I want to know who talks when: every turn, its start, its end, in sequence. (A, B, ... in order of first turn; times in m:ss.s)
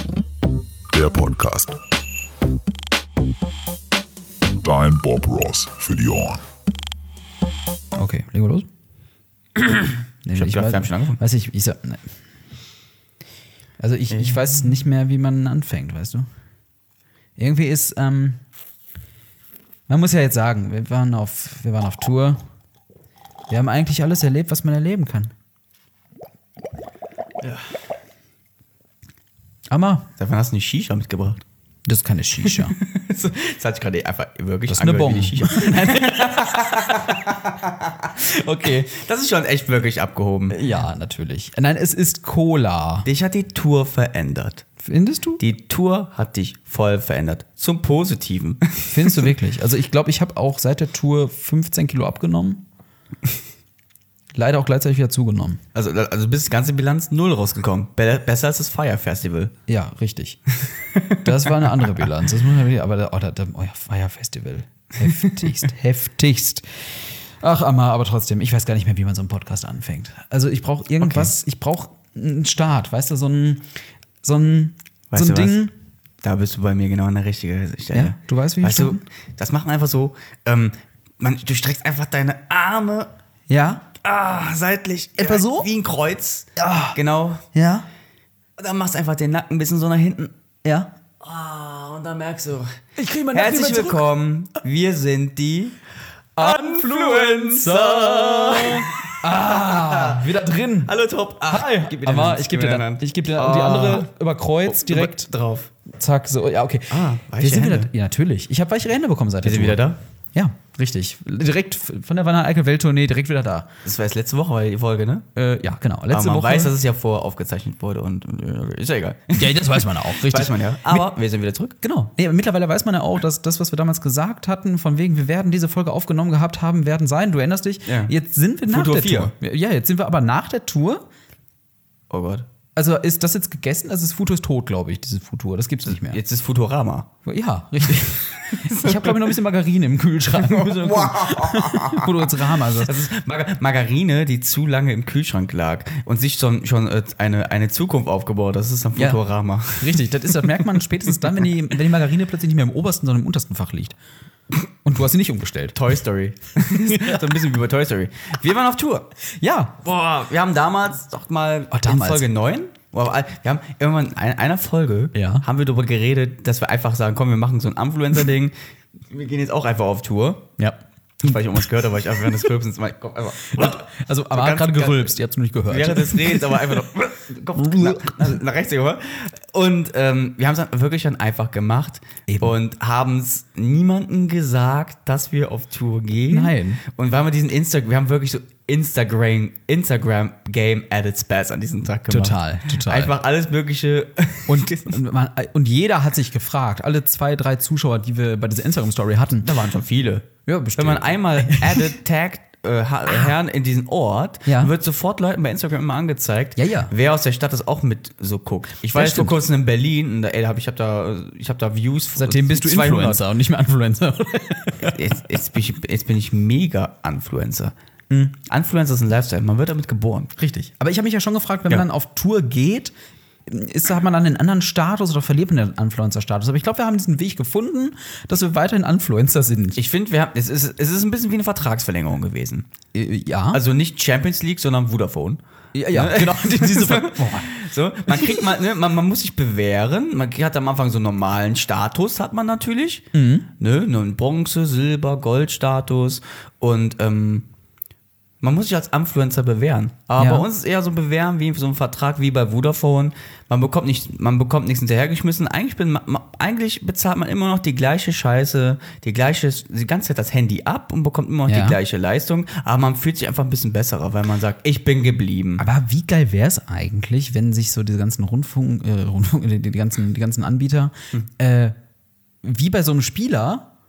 0:00.9-0:01.8 A
0:04.6-0:06.4 A
0:08.0-0:08.7 B
0:10.2-0:12.0 B
0:10.3-0:11.2 C
0:13.8-0:16.3 B
0:14.1-0:14.5 C
0:17.4-0:18.4 B
0:19.9-0:22.4 B
0:23.5-0:25.3 B
0:27.4-0:27.7 C
0:29.7-0:30.1 B
0:30.2-0:31.4 C
0:31.8-0:32.7 B
0:32.4-0:40.6 C
0:34.7-0:37.2 B
0:40.5-0:43.1 B
0:43.0-0:44.6 C
0:44.8-0:45.4 B
0:45.4-0:49.2 C
0:48.9-0:52.6 B
0:54.3-0:55.6 B
0:55.7-0:59.5 C
0:59.7-1:00.4 B
1:00.7-1:01.2 C
1:01.2-1:13.7 B
1:05.1-1:05.5 C
1:11.0-1:11.3 C
1:14.2-1:15.7 B
1:15.1-1:15.6 C
1:16.2-1:23.1 C
1:17.9-1:19.0 B
1:23.5-1:23.8 B
1:24.0-1:27.4 C
1:25.2-1:25.7 B
1:26.6-1:27.0 B
1:27.5-1:27.8 B
1:28.6-1:30.3 C
1:30.6-1:30.9 B
1:31.2-1:32.8 C
1:33.0-1:34.1 B
1:33.3-1:35.8 C
1:36.4-1:40.9 B
1:36.4-1:40.2 C
1:40.8-1:44.1 C
1:41.5-1:45.3 B
1:44.6-1:45.7 C
1:45.9-1:49.8 B
1:46.9-1:47.9 C
1:49.4-1:50.0 C
1:50.3-1:53.7 B
1:53.8-1:55.2 C
1:55.3-1:56.7 B
1:56.1-2:01.8 C
1:59.4-2:01.1 B
2:01.8-2:11.0 B
2:07.8-2:08.1 C
2:08.7-2:09.3 C
2:12.1-2:12.4 C
2:12.7-2:16.2 B
2:15.9-2:17.1 C
2:17.2-2:22.9 B
2:18.5-2:19.2 C
2:20.4-2:30.7 C
2:29.8-2:34.0 B
2:34.8-2:35.8 B
2:35.7-2:39.1 C
2:36.7-2:37.2 B
2:39.4-2:39.8 B
2:39.8-2:48.5 C
2:41.7-2:42.2 B
2:45.1-2:45.4 B
2:49.1-2:50.5 C
2:50.6-2:51.6 B
2:51.2-2:55.2 C
2:53.5-2:56.8 B
2:55.7-3:14.9 C
2:57.6-2:58.4 B
3:02.3-3:02.6 B
3:06.3-3:06.8 B
3:12.1-3:13.1 B
3:14.5-3:19.5 B
3:19.4-3:33.2 C
3:20.4-3:21.9 B
3:24.4-3:24.7 B
3:26.6-3:26.9 B
3:28.9-3:29.4 B
3:32.2-3:35.0 B
3:34.8-3:37.7 C
3:38.4-3:40.4 C
3:40.4-3:42.9 B
3:43.4-3:49.8 B
3:49.7-3:52.6 C
3:52.9-3:53.6 B
3:53.5-4:07.4 C
3:55.7-3:57.5 B
3:58.1-3:58.5 B
4:03.1-4:03.5 B
4:08.4-4:25.6 C
4:10.2-4:10.5 B
4:21.5-4:21.8 B
4:25.6-4:31.8 B
4:32.4-4:33.7 B